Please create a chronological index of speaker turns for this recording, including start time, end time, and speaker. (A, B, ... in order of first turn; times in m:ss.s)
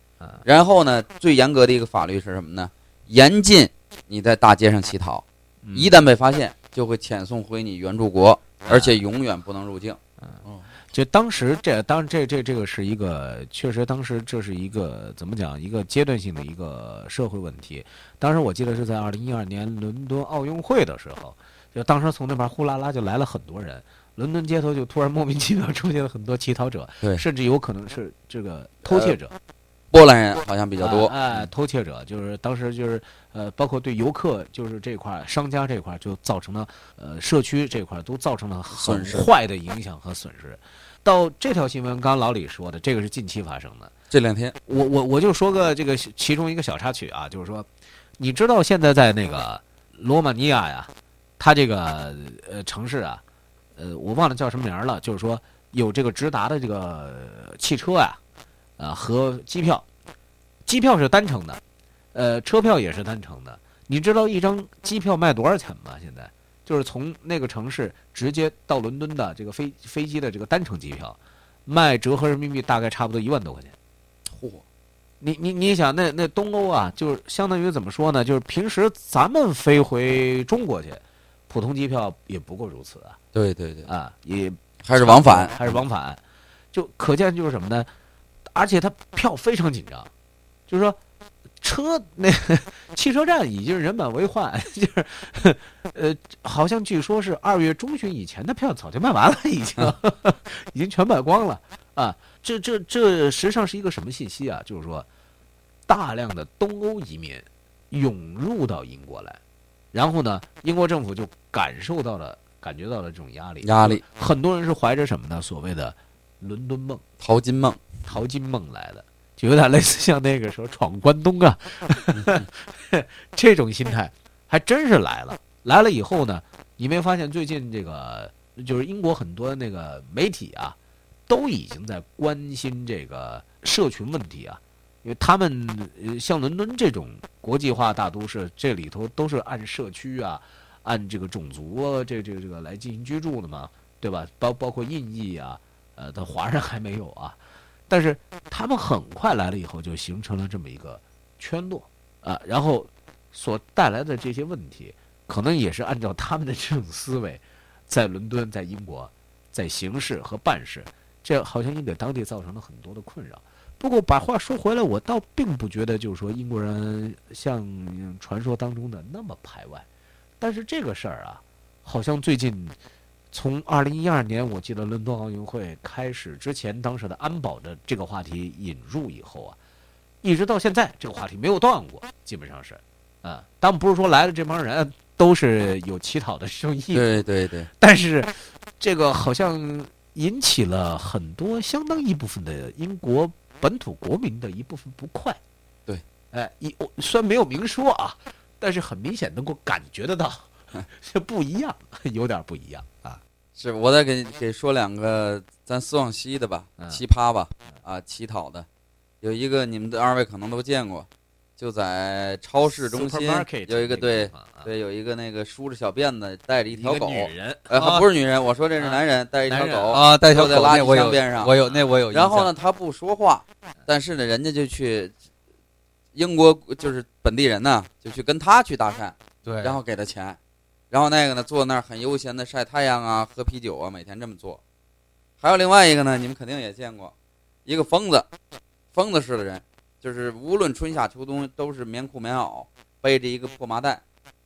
0:00.4-0:10.0 A
0:05.6-0:06.0 B
0:08.7-0:09.0 B
0:10.9-0:29.4 B
0:28.9-0:29.1 A
0:29.9-0:31.4 A
0:30.8-0:43.9 B
0:38.8-0:39.3 A
0:44.1-0:44.6 A
0:44.7-0:53.2 B
0:53.8-0:58.2 B
0:58.8-0:59.8 B
1:00.7-1:01.6 B
1:02.1-1:13.8 B
1:14.4-1:14.6 A
1:15.2-1:23.2 B
1:23.3-1:23.9 A
1:23.9-1:26.2 B
1:24.8-1:25.6 A
1:26.7-1:27.9 B
1:28.5-1:30.1 B
1:30.7-1:31.0 B
1:31.6-1:45.1 B
1:45.9-1:49.4 B
1:49.9-1:57.0 B
1:53.6-1:54.0 A
1:57.2-1:57.8 A
1:58.1-2:10.8 B
2:11.3-2:49.9 B
2:50.4-2:52.8 B
2:53.3-2:59.6 B
3:00.2-3:07.3 B
3:06.9-3:07.7 A
3:07.8-3:15.4 B
3:16.3-3:23.2 B
3:23.6-3:28.7 A
3:29.2-3:31.1 A
3:31.6-3:41.6 A
3:32.6-3:34.7 B
3:36.7-3:37.7 B
3:37.7-3:38.1 C
3:39.5-3:40.0 B
3:39.9-3:42.5 C
3:42.1-3:45.1 A
3:46.2-3:50.4 A
3:49.4-3:49.8 C
3:50.9-3:54.6 A
3:55.4-3:57.1 A
3:57.7-3:58.3 A
3:58.9-4:04.0 A